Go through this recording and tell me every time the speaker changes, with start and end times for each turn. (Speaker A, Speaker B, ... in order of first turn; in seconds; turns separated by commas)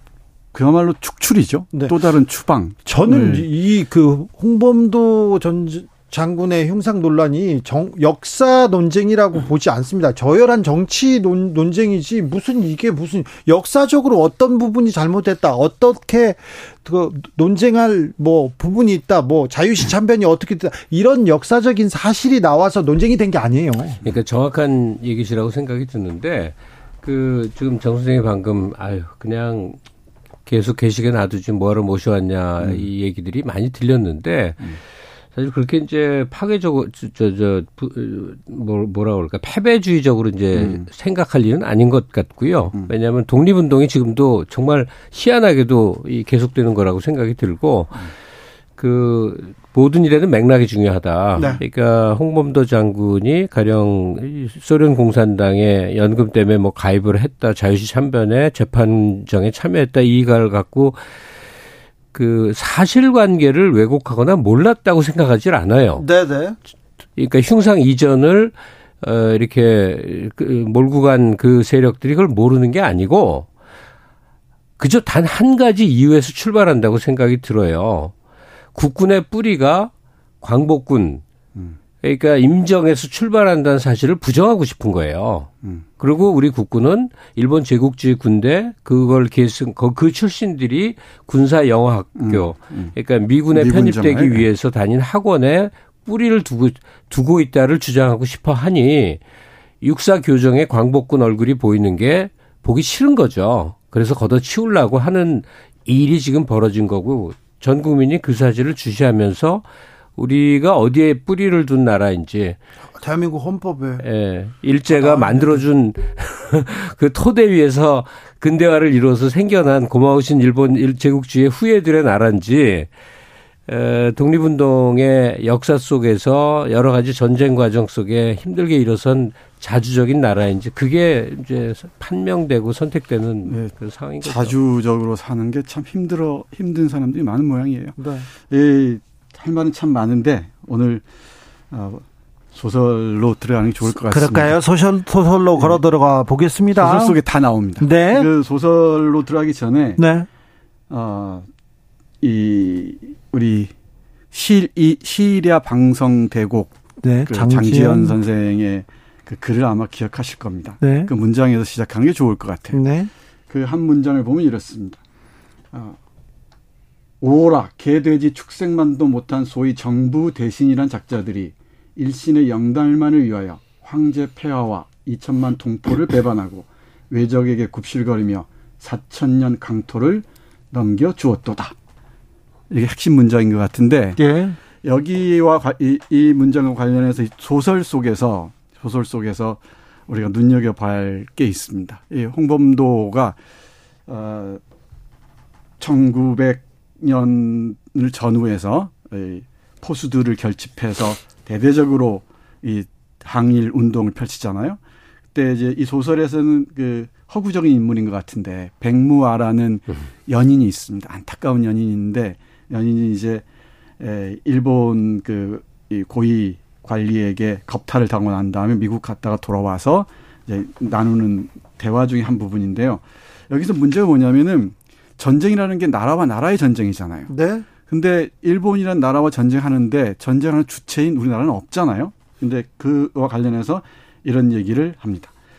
Speaker A: 0.5-3.5, Speaker B: 2.9-24.0, Speaker C: 24.0-29.8, Speaker C: 30.5-34.8, Speaker A: 32.6-32.9, Speaker C: 35.4-48.1, Speaker A: 40.5-40.9, Speaker C: 48.8-61.0, Speaker C: 62.1-66.0, Speaker B: 66.0-66.6, Speaker C: 67.2-73.5, Speaker C: 74.8-78.1, Speaker C: 78.8-79.9, Speaker C: 80.4-81.2, Speaker C: 82.0-99.2, Speaker A: 92.2-92.9, Speaker A: 93.5-94.5, Speaker C: 99.8-109.6, Speaker C: 110.2-112.6, Speaker B: 113.0-114.0, Speaker C: 114.0-122.9, Speaker B: 114.9-115.7, Speaker C: 123.7-134.5, Speaker A: 133.5-138.0, Speaker B: 138.0-138.3, Speaker A: 138.5-141.1, Speaker A: 141.7-144.6, Speaker B: 144.0-147.2, Speaker A: 146.8-150.0, Speaker B: 147.8-148.3, Speaker B: 150.0-150.3, Speaker A: 150.9-151.5, Speaker A: 152.2-153.7, Speaker A: 154.3-156.8, Speaker B: 157.0-158.2, Speaker A: 157.3-162.8, Speaker B: 160.8-161.1, Speaker B: 162.7-163.1, Speaker A: 163.5-165.0, Speaker A: 165.7-166.0, Speaker A: 167.2-181.8, Speaker A: 182.7-184.2, Speaker B: 184.2-184.6, Speaker A: 184.8-193.4, Speaker A: 194.1-194.6, Speaker A: 195.8-204.8, Speaker A: 205.3-213.4, Speaker A: 214.0-227.3, Speaker B: 227.3-227.7, Speaker A: 227.8-235.3